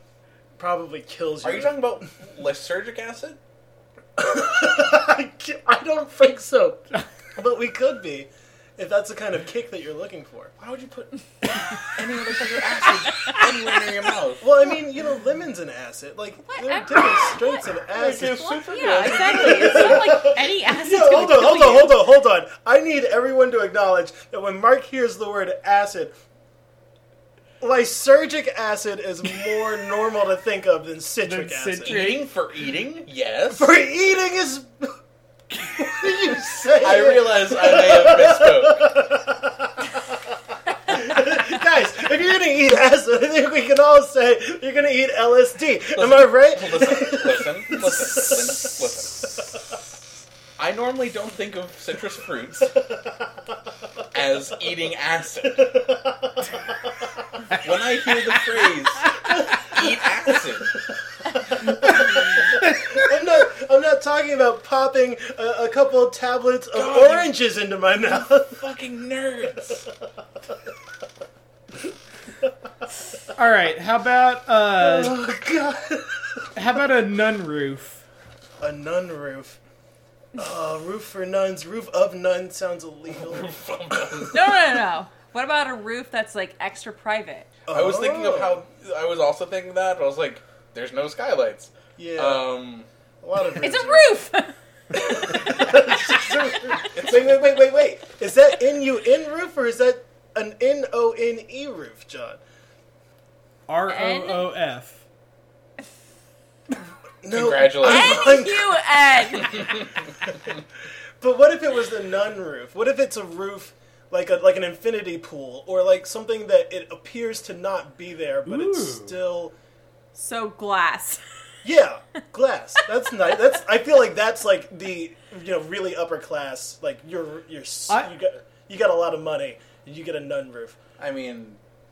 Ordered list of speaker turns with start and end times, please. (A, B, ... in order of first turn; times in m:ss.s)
0:00.6-0:02.0 A
0:01.4-0:03.4 B
0:04.2-0:10.5 A
0:10.6-0:14.5 B
0:14.4-0:26.2 A
0:16.4-0:22.0 C
0:17.9-0:20.1 B
0:27.6-0:32.0 A
0:31.2-0:32.3 D
0:31.8-0:33.7 B
0:33.5-0:34.9 A
0:35.6-0:39.7 A
0:36.8-0:38.9 B
0:40.9-0:48.8 A
0:46.0-0:49.3 B
0:50.6-0:52.8 B
0:54.1-0:55.7 B
0:55.5-0:56.9 A
0:57.6-1:00.7 B
0:59.3-0:59.8 A
1:01.5-1:08.6 A
1:06.7-1:07.4 B
1:08.0-1:09.9 B
1:13.3-1:15.2 D
1:14.8-1:16.5 A
1:16.6-1:18.0 D
1:18.6-1:19.6 A
1:20.4-1:23.6 A
1:23.2-1:24.6 B
1:24.3-1:27.5 C
1:27.7-1:28.6 A
1:27.7-1:32.9 B
1:32.0-1:32.6 A
1:33.2-1:34.2 A
1:33.4-1:35.7 C
1:34.9-1:42.4 A
1:36.9-1:37.4 B
1:43.7-1:45.0 D
1:43.9-1:44.5 C
1:47.2-1:49.5 A
1:47.3-1:48.4 B
1:47.8-1:49.9 C
1:51.2-1:59.5 A
1:58.4-1:59.2 D
2:00.2-2:01.2 C
2:01.6-2:10.8 A
2:07.9-2:08.1 D
2:11.0-2:11.6 B